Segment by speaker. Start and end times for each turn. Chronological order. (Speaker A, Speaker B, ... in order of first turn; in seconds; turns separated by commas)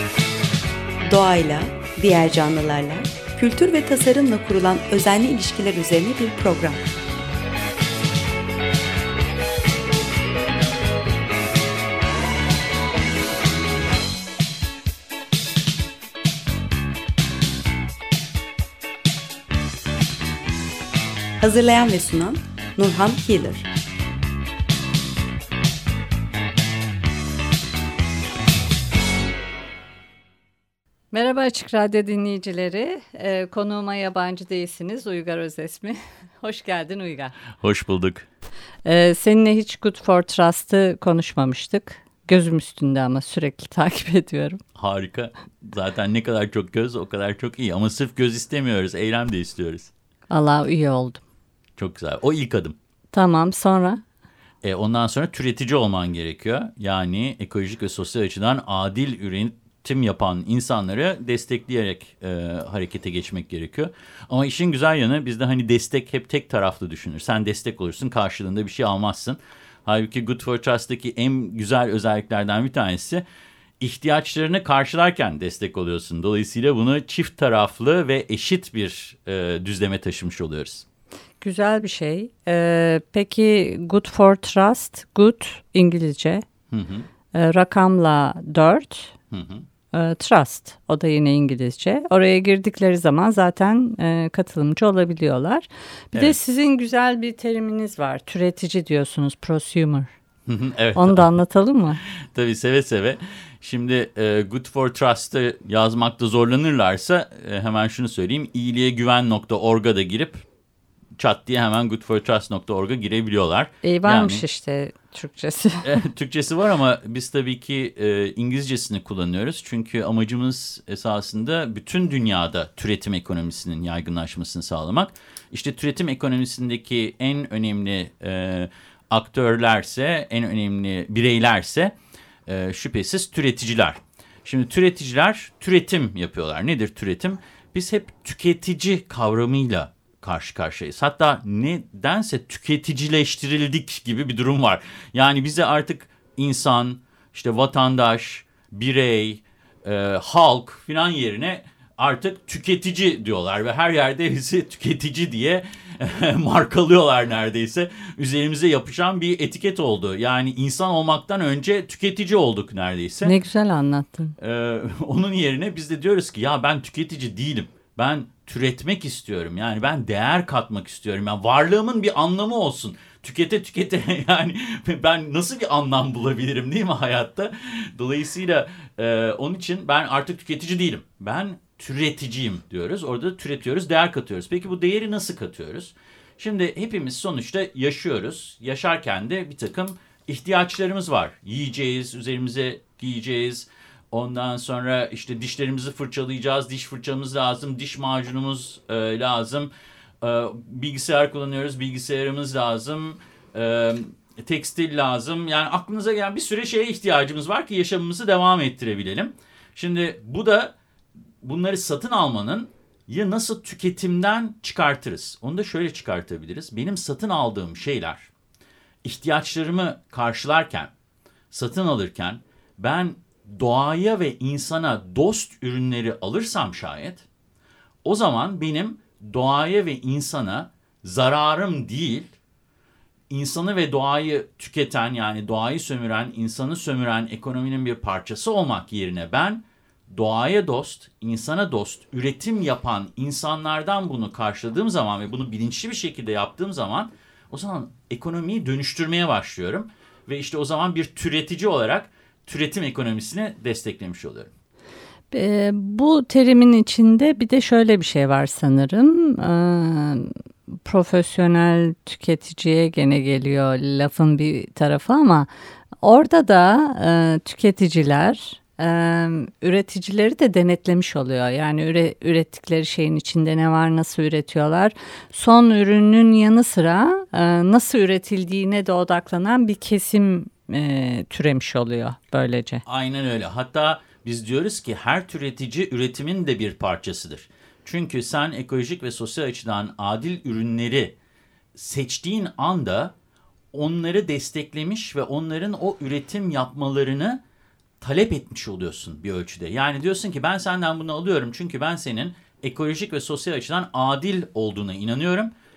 Speaker A: 1.0-6.8, Speaker A: 21.4-23.7, Speaker B: 31.1-37.4, Speaker C: 37.6-38.3, Speaker B: 38.9-44.6, Speaker C: 44.7-49.9, Speaker B: 50.3-51.2, Speaker C: 51.8-52.8, Speaker B: 53.1-54.0, Speaker C: 54.6-73.2, Speaker C: 73.8-80.8, Speaker B: 81.4-86.4, Speaker C: 86.7-87.1, Speaker B: 87.3-89.1, Speaker C: 89.3-89.7, Speaker B: 89.9-100.1, Speaker C: 100.5-101.3, Speaker B: 101.0-102.0, Speaker C: 102.3-110.5, Speaker C: 111.2-114.4, Speaker B: 113.8-116.0, Speaker C: 115.8-131.9, Speaker C: 132.4-163.3, Speaker B: 163.2-164.3, Speaker C: 164.4-199.7, Speaker C: 200.2-210.7, Speaker C: 211.4-218.3, Speaker C: 219.0-220.9, Speaker C: 221.5-227.2, Speaker C: 228.0-232.3, Speaker C: 233.3-254.5, Speaker B: 255.3-260.3, Speaker B: 260.8-265.5, Speaker B: 266.0-282.8, Speaker C: 282.8-291.1, Speaker C: 291.7-293.1, Speaker C: 293.7-297.4, Speaker C: 298.0-305.5